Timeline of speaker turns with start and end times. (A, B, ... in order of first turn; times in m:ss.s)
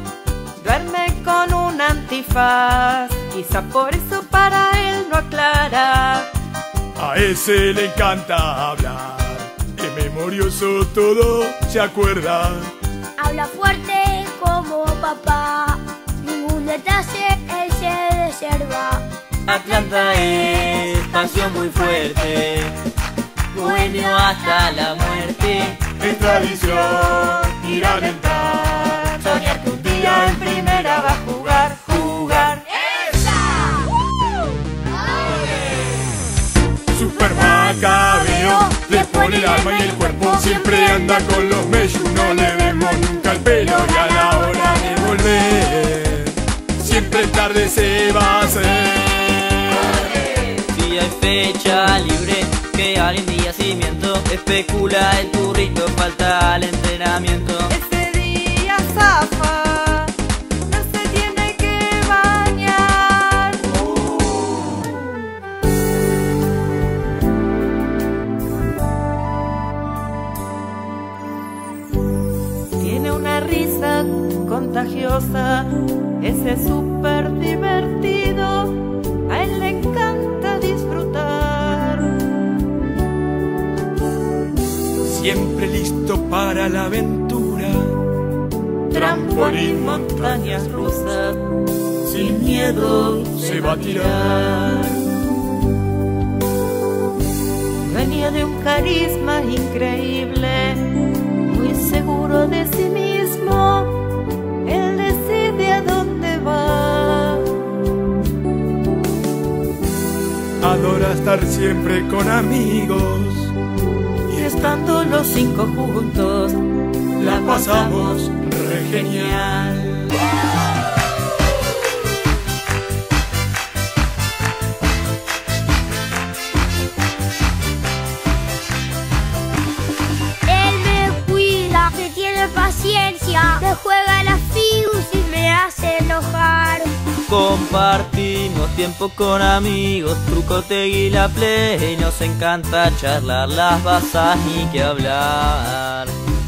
0:00.6-0:06.3 A
0:07.0-0:12.7 B
0:13.2-0:19.0 C
0:19.4-0:22.8 D
0:23.5-0:25.9 D
0:26.0-0:27.6 B
0:26.5-0:32.7 A
0:30.0-0:31.1 B
0:36.9-0:49.9 B
0:50.6-0:57.7 D
0:57.7-1:00.1 A
1:00.6-1:03.8 A
1:12.8-1:22.2 A
1:25.0-1:28.0 B
1:28.9-1:31.4 A
1:28.9-1:30.8 B
1:32.0-1:35.1 A
1:33.4-1:34.3 B
1:37.8-1:44.0 A
1:44.6-1:47.5 A
1:50.6-1:53.6 B
1:54.3-1:56.6 A
1:57.2-2:00.1 A
1:57.2-1:59.6 B
2:10.5-2:16.9 C
2:17.3-2:26.2 D